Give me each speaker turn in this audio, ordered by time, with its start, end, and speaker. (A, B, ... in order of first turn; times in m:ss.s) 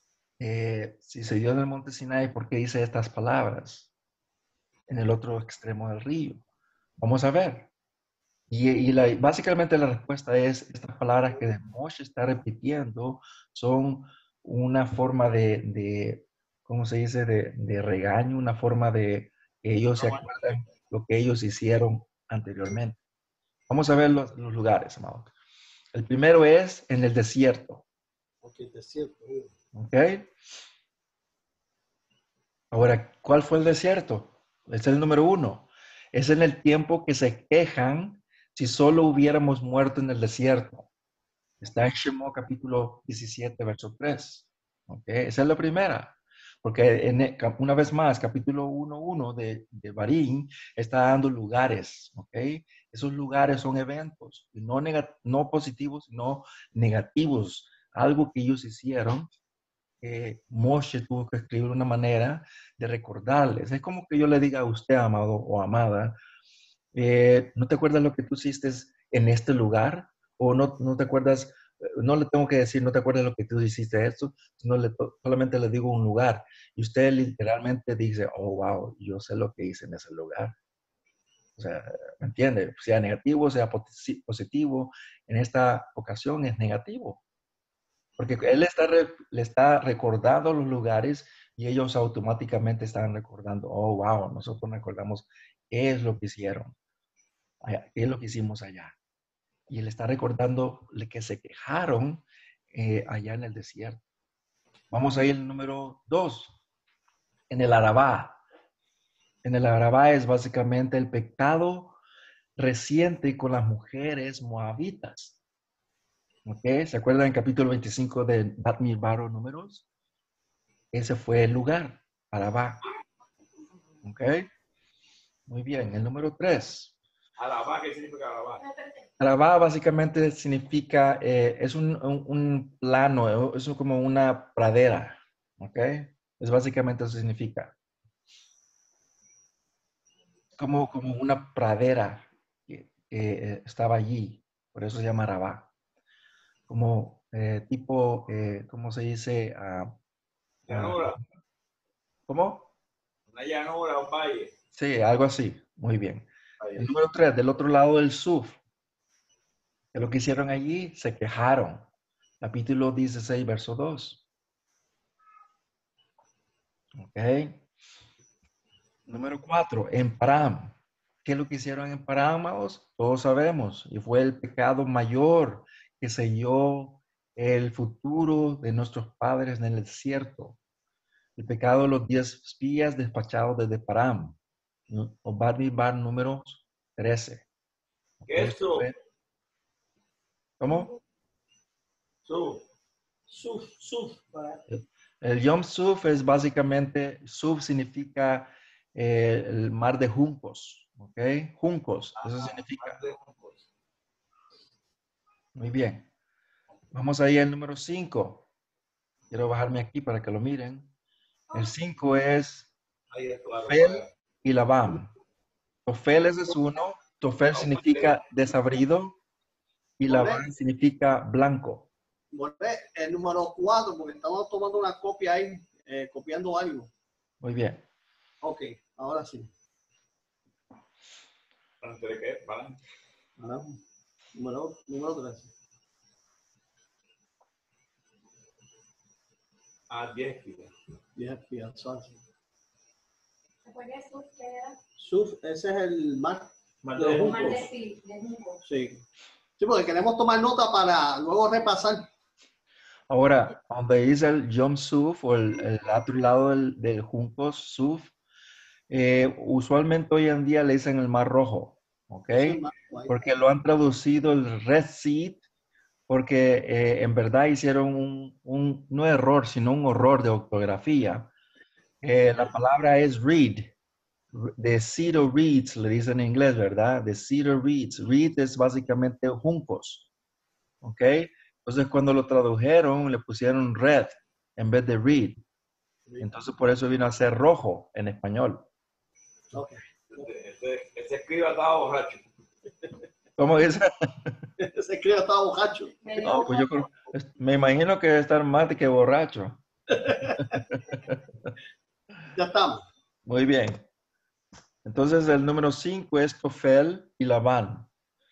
0:00.4-0:03.9 A
0:04.9-0:06.4 A
0:07.0-0:07.7 A
0:08.5-0:23.0 A
0:20.0-0:20.6 B
0:23.7-0:25.3 A
0:25.9-0:27.8 A
0:28.4-0:29.5 C
0:29.7-0:30.3 A
0:32.7-0:40.9 A
0:41.6-0:59.3 A
1:00.0-1:06.2 A
1:06.9-1:20.5 A
1:21.6-1:27.2 A
1:28.2-1:36.7 A
1:37.6-1:38.9 A
1:39.7-1:44.0 A
1:44.9-1:46.6 A
1:47.5-1:48.4 A
1:49.4-1:52.0 A
1:52.6-1:55.4 A
1:56.5-1:59.8 A
2:00.9-2:02.8 A
2:04.0-2:04.5 A
2:05.5-2:06.9 A
2:07.4-2:08.6 B
2:08.6-2:09.1 D
2:09.2-2:17.8 A
2:20.6-2:25.7 A
2:26.7-2:30.0 A
2:30.7-2:31.2 B
2:30.7-2:31.2 A
2:32.3-2:32.7 A
2:33.3-2:34.5 B
2:34.7-2:38.6 A
2:36.6-2:36.9 B
2:39.9-2:41.9 A
2:42.4-2:44.2 A
2:47.0-2:47.6 A
2:49.1-3:00.6 A
3:01.4-3:04.4 A
3:04.9-3:07.5 A
3:08.2-3:09.0 A
3:08.3-3:08.9 B
3:10.6-3:10.9 A
3:12.3-3:12.6 B
3:13.3-3:14.6 C
3:14.7-3:23.0 A
3:22.2-3:23.6 B
3:25.6-3:26.1 A
3:26.9-3:28.5 A
3:29.3-3:30.9 A
3:31.5-3:32.7 A
3:33.1-3:34.1 B
3:33.6-3:35.1 A
3:35.9-3:39.2 A
3:37.5-3:38.2 B
3:40.0-3:41.9 A
3:40.1-3:40.4 C
3:42.3-3:46.9 C
3:47.4-3:47.8 A
3:48.4-3:49.5 C
3:51.8-3:52.8 B
3:53.4-3:53.8 C
3:54.3-3:55.5 C
3:59.9-4:00.7 B
4:01.2-4:02.2 C
4:03.6-4:04.8 D
4:05.0-4:07.6 C
4:06.8-4:07.7 B
4:07.2-4:08.6 D
4:08.6-4:09.0 C
4:09.6-4:12.1 C
4:13.1-4:18.1 A
4:18.9-4:25.4 A
4:22.3-4:23.2 C
4:26.1-4:31.3 A
4:32.0-4:33.7 A
4:34.3-4:40.1 A
4:40.8-4:45.4 A
4:46.1-4:46.4 C
4:46.2-4:48.7 A
4:49.5-4:50.3 C
4:50.2-4:52.2 B
4:53.4-4:54.5 A
4:54.6-4:56.0 C
4:56.0-4:56.8 D
4:56.2-4:59.6 A
4:59.9-5:00.6 C
5:00.2-5:01.5 A
5:02.3-5:02.8 C
5:03.2-5:03.8 A
5:04.8-5:07.9 A